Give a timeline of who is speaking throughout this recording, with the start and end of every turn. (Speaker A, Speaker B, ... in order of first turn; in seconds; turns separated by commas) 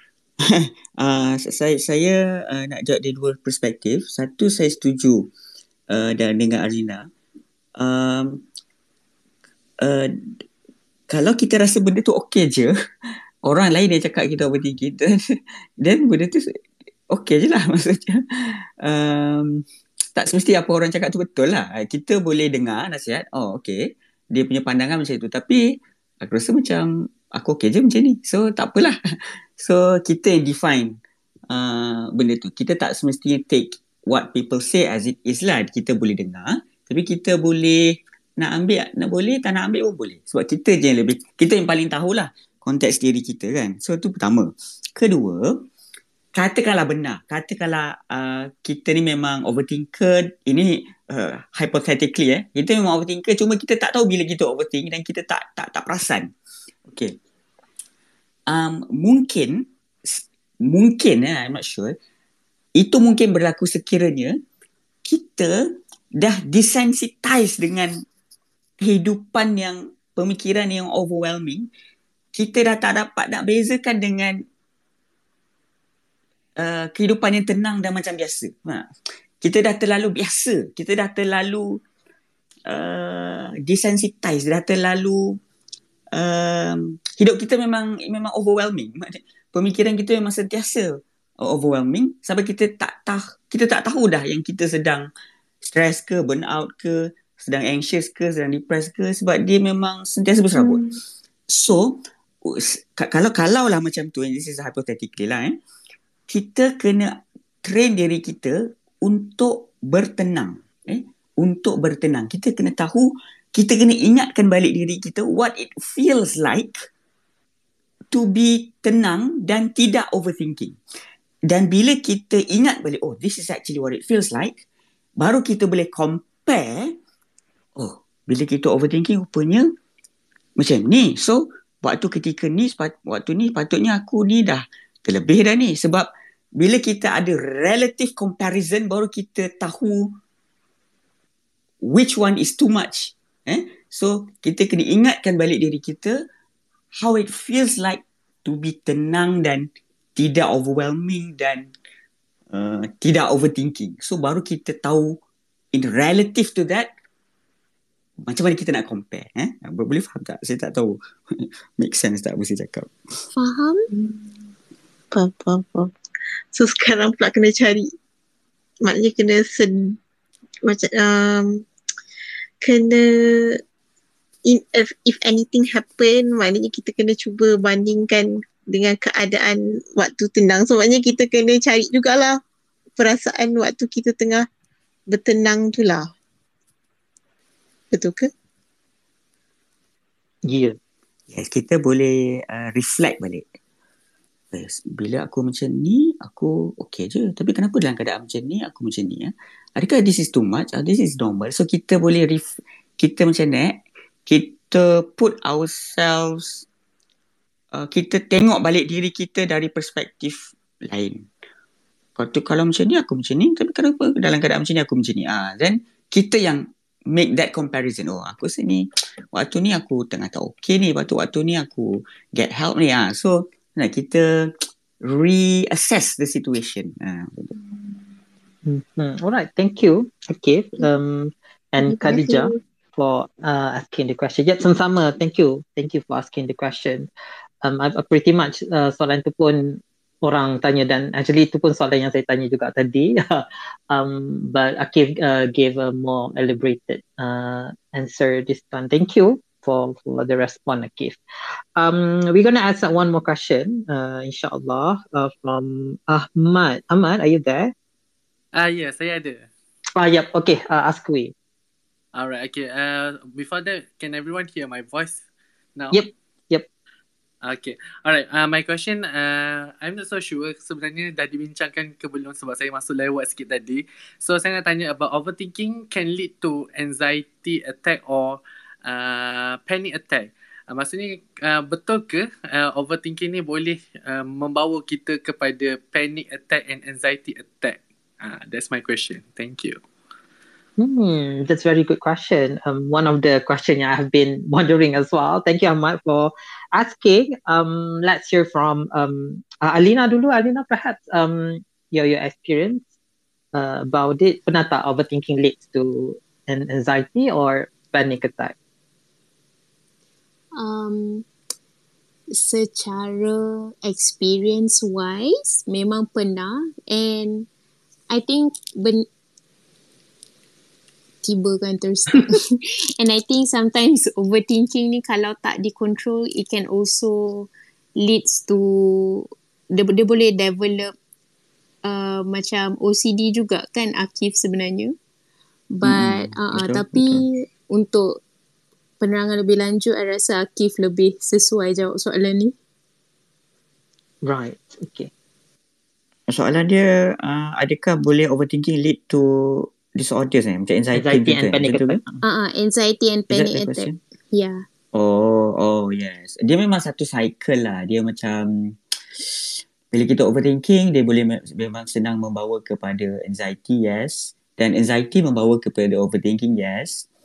Speaker A: 0.4-5.3, Speaker A: 5.9-7.1, Speaker A: 7.8-8.4, Speaker A: 9.8-10.4, Speaker A: 11.1-12.7, Speaker A: 13.4-15.2, Speaker A: 15.8-16.6, Speaker A: 17.1-18.2, Speaker A: 18.8-31.0, Speaker A: 31.5-45.7, Speaker A: 46.3-56.3, Speaker A: 56.9-57.1, Speaker A: 58.5-62.0, Speaker A: 62.8-64.4, Speaker A: 65.0-68.0, Speaker A: 68.8-71.7, Speaker A: 72.3-74.5, Speaker A: 76.6-78.9, Speaker A: 79.4-81.8, Speaker A: 82.7-85.4, Speaker A: 86.1-95.1, Speaker A: 95.6-100.8, Speaker A: 101.5-105.6, Speaker A: 106.3-116.9, Speaker A: 118.1-120.8, Speaker A: 121.5-124.6, Speaker A: 125.2-127.0, Speaker A: 127.8-129.7, Speaker A: 130.6-140.2, Speaker A: 141.8-146.2, Speaker A: 146.9-151.7, Speaker A: 152.5-155.2, Speaker A: 155.7-156.9, Speaker A: 158.2-162.9, Speaker B: 163.3-163.9, Speaker C: 163.9-164.3, Speaker C: 165.1-165.9, Speaker C: 166.5-167.9, Speaker C: 168.8-170.0, Speaker C: 170.6-171.6, Speaker C: 172.6-173.6, Speaker C: 174.5-182.4, Speaker C: 183.0-184.4, Speaker C: 185.1-186.1, Speaker C: 187.9-188.3, Speaker D: 190.4-190.8, Speaker A: 191.3-193.5, Speaker A: 194.5-206.6, Speaker A: 207.7-211.3, Speaker A: 212.2-227.5, Speaker D: 228.7-237.1, Speaker C: 231.8-232.5, Speaker D: 237.6-251.2, Speaker D: 251.8-257.7, Speaker E: 258.5-259.5, Speaker D: 259.9-261.3, Speaker E: 262.1-265.2, Speaker E: 265.8-266.0, Speaker D: 265.9-266.7, Speaker E: 267.4-289.8, Speaker D: 290.8-302.8, Speaker D: 303.5-308.5, Speaker B: 310.6-311.2, Speaker B: 312.3-317.5, Speaker B: 318.1-319.1, Speaker B: 321.2-330.9, Speaker B: 331.8-335.0, Speaker B: 335.7-338.2, Speaker A: 335.8-337.2, Speaker B: 339.0-342.5, Speaker D: 344.2-345.1, Speaker A: 346.3-352.0, Speaker D: 350.9-352.2, Speaker B: 352.2-354.6, Speaker A: 353.3-354.0, Speaker A: 354.9-367.1